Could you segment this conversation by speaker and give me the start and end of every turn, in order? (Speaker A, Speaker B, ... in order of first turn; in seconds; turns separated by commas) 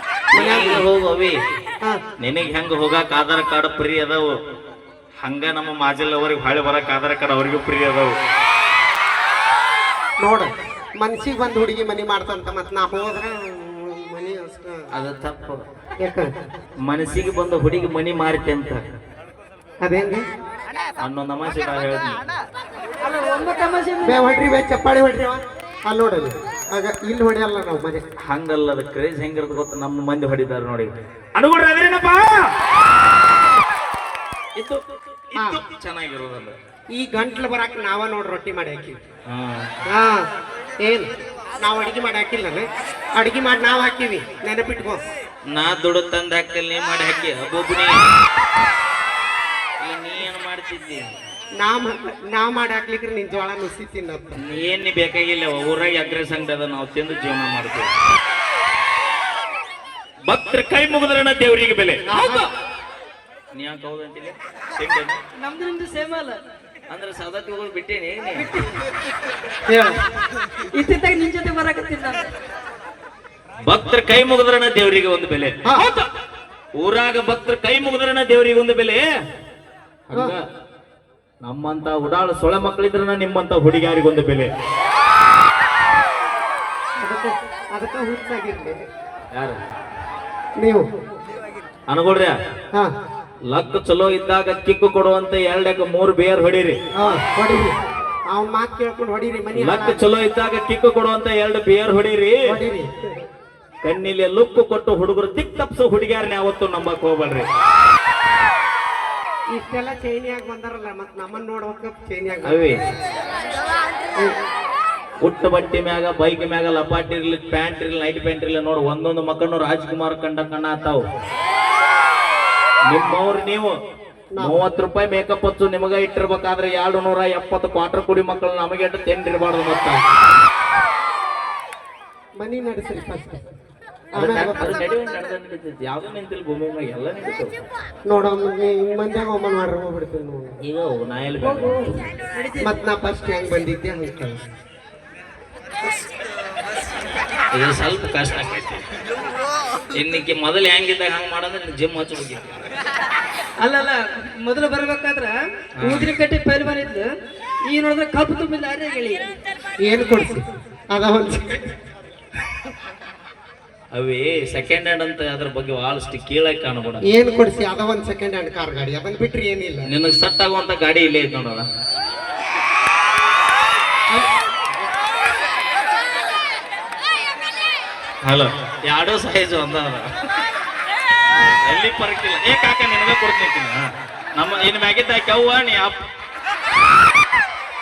Speaker A: 0.3-0.8, Speaker B: 0.3-1.4, Speaker B: 2.2-4.3, Speaker B: 5.2-8.1, Speaker A: 10.2-14.9, Speaker B: 14.9-15.6, Speaker A: 16.0-16.3, Speaker B: 16.8-18.8, Speaker A: 19.8-20.2, Speaker B: 21.0-22.2, Speaker C: 23.0-24.2, Speaker A: 24.0-28.0, Speaker B: 28.2-32.5, Speaker B: 34.5-36.5, Speaker A: 35.4-35.6, Speaker A: 36.9-39.0, Speaker B: 39.3-39.7, Speaker A: 39.9-40.2, Speaker A: 41.6-45.0, Speaker B: 45.5-48.0, Speaker B: 49.8-51.1, Speaker A: 51.6-54.4, Speaker B: 54.4-57.9, Speaker B: 60.3-62.0, Speaker A: 62.0-62.5, Speaker B: 63.5-65.2, Speaker C: 65.4-66.4, Speaker B: 66.9-68.5, Speaker C: 68.4-68.7, Speaker A: 69.7-69.9, Speaker C: 70.7-72.3, Speaker B: 73.6-76.0, Speaker A: 75.6-75.9, Speaker B: 76.8-79.0, Speaker B: 80.1-80.4, Speaker B: 81.4-84.5, Speaker A: 87.0-88.8, Speaker B: 89.3-89.6, Speaker B: 91.9-92.3, Speaker B: 93.5-96.7, Speaker A: 97.0-97.7, Speaker A: 98.3-100.0, Speaker B: 99.6-102.5, Speaker A: 102.5-102.9, Speaker B: 103.8-107.5, Speaker A: 109.5-112.7, Speaker B: 112.5-112.7, Speaker B: 115.2-121.0, Speaker B: 122.9-123.7, Speaker B: 124.4-130.0, Speaker A: 132.4-133.4, Speaker A: 134.1-134.7, Speaker B: 134.2-137.5, Speaker A: 138.1-140.5, Speaker B: 140.6-141.8, Speaker C: 141.4-142.8, Speaker A: 142.6-144.4, Speaker B: 147.5-148.8, Speaker B: 149.9-152.6, Speaker C: 153.6-157.1, Speaker B: 155.8-156.1, Speaker C: 157.7-159.2, Speaker A: 159.8-161.7, Speaker B: 163.9-167.0, Speaker A: 167.1-169.9, Speaker B: 169.9-171.6, Speaker B: 178.2-180.1, Speaker B: 181.6-183.8, Speaker B: 184.3-186.0